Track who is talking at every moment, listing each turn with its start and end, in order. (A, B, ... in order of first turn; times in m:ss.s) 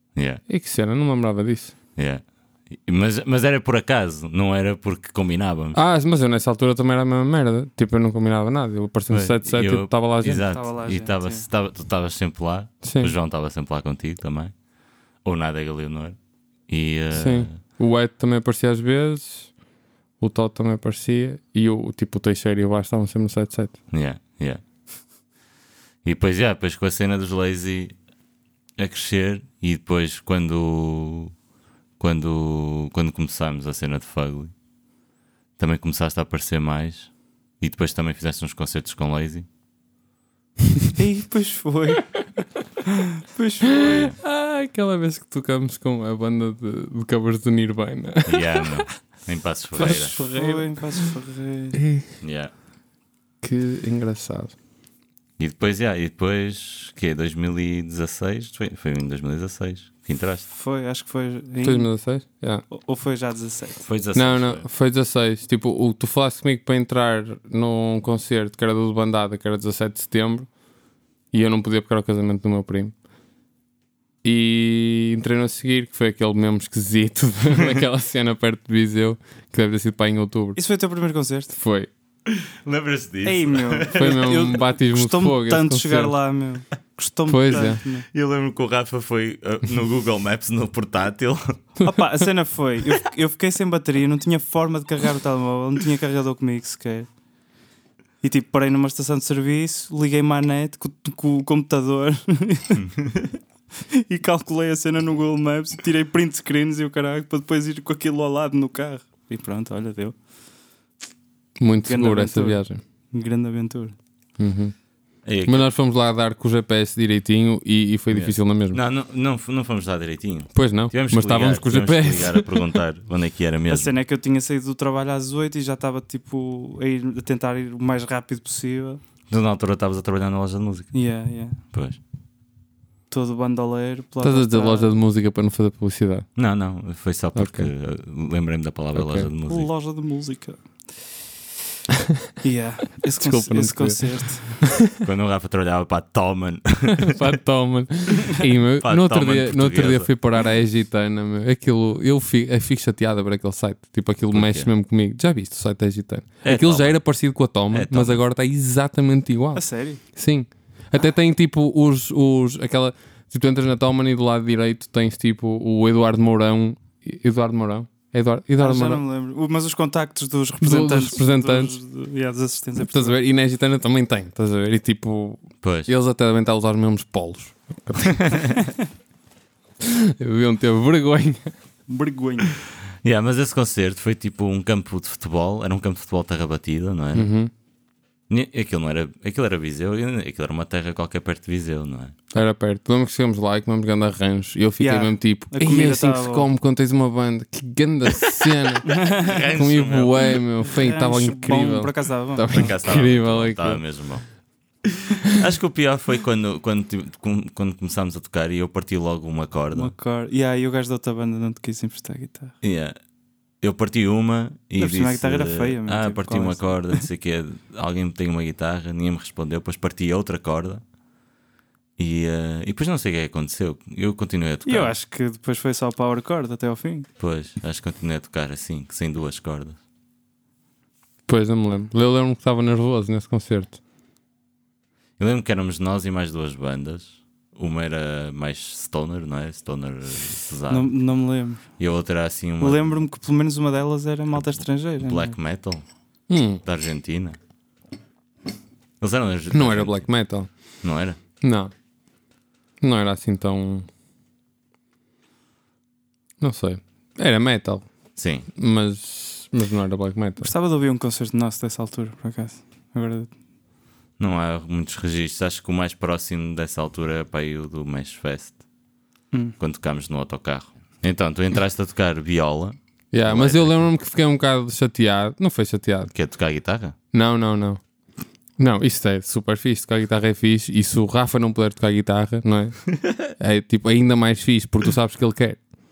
0:00.1-0:00.4 A
0:00.4-0:01.7 B
0:02.0-0:05.8 A
0:05.7-0:10.4 B
0:09.1-0:14.5 A
0:10.5-0:11.4 C
0:12.8-0:13.1 B
0:15.2-0:16.2 A
0:16.7-0:17.5 A
0:17.1-0:19.5 B
0:20.2-0:23.8 B
0:23.9-0:24.6 A
0:26.0-0:27.9 A
0:28.8-0:31.3 A
0:32.0-0:34.5 A
0:35.6-0:39.5 A
0:41.0-0:42.2 C
0:43.3-0:44.1 C
0:43.8-0:44.2 A
0:43.9-0:48.9 B
0:48.2-0:50.1 A
0:49.8-0:51.1 B
0:49.8-0:51.8 C
0:52.2-0:52.5 A
0:53.4-0:54.5 B
0:55.4-1:00.4 A
1:00.5-1:01.9 C
1:01.6-1:02.6 B
1:02.7-1:03.9 C
1:03.8-1:04.6 A
1:04.1-1:10.5 B
1:11.3-1:12.9 B
1:14.2-1:20.6 B
1:20.6-1:21.6 C
1:21.6-1:21.9 B
1:22.2-1:24.2 A
1:23.2-1:28.1 C
1:23.9-1:26.2 B
1:27.3-1:27.8 B
1:28.1-1:31.6 A
1:31.8-1:37.1 C
1:38.2-1:43.0 C
1:43.9-1:50.1 C
1:51.6-1:52.8 B
1:51.8-1:53.9 C
1:54.4-1:54.7 B
1:55.2-1:55.7 A
1:55.4-1:58.8 B
1:58.1-2:03.9 A
2:00.5-2:02.8 B
2:03.7-2:09.0 C
2:09.3-2:11.0 A
2:10.9-2:11.6 C
2:11.6-2:12.0 A
2:13.1-2:14.9 C
2:14.2-2:16.3 B
2:16.4-2:19.7 A
2:17.3-2:17.7 B
2:18.9-2:19.3 B
2:19.4-2:20.6 C
2:22.4-2:24.7 C
2:23.1-2:24.7 B
2:25.0-2:27.2 A
2:27.0-2:49.0 B
2:28.8-2:30.1 A
2:34.3-2:34.7 A
2:36.4-2:37.1 A
2:37.7-2:38.2 A
2:39.5-2:40.0 C
2:48.6-2:53.2 C
2:50.6-2:51.7 B
2:52.8-2:58.4 B
2:55.6-2:55.9 A
2:58.2-2:58.5 A
2:59.8-3:01.5 B
3:01.9-3:02.5 C
3:03.0-3:07.3 A
3:07.1-3:07.5 B
3:08.3-3:12.1 A
3:12.3-3:19.0 B
3:14.8-3:16.5 C
3:18.9-3:19.4 C
3:18.9-3:20.4 A
3:19.5-3:23.8 B
3:20.7-3:22.7 C
3:22.5-3:24.2 A
3:25.2-3:29.9 A
3:29.7-3:32.5 C
3:32.6-3:33.0 A
3:33.6-3:40.8 A
3:34.8-3:37.0 C
3:42.0-3:45.0 A
3:44.6-3:47.1 C
3:47.2-3:49.8 A
3:51.3-3:53.8 B
3:55.2-4:00.9 A
4:00.7-4:01.6 C
4:01.8-4:03.0 A
4:02.6-4:05.4 C
4:04.4-4:05.8 A
4:06.3-4:06.6 B
4:06.6-4:07.4 A
4:09.0-4:10.1 A
4:09.5-4:10.5 B
4:10.8-4:11.2 A
4:11.4-4:11.7 B
4:12.8-4:13.9 B
4:16.4-4:17.9 B
4:18.2-4:18.5 A
4:18.6-4:20.5 B
4:20.4-4:23.3 C
4:24.2-4:28.6 A
4:29.6-4:33.8 A
4:33.1-4:36.1 B
4:36.1-4:36.9 A
4:37.1-4:37.8 B
4:38.6-4:45.6 B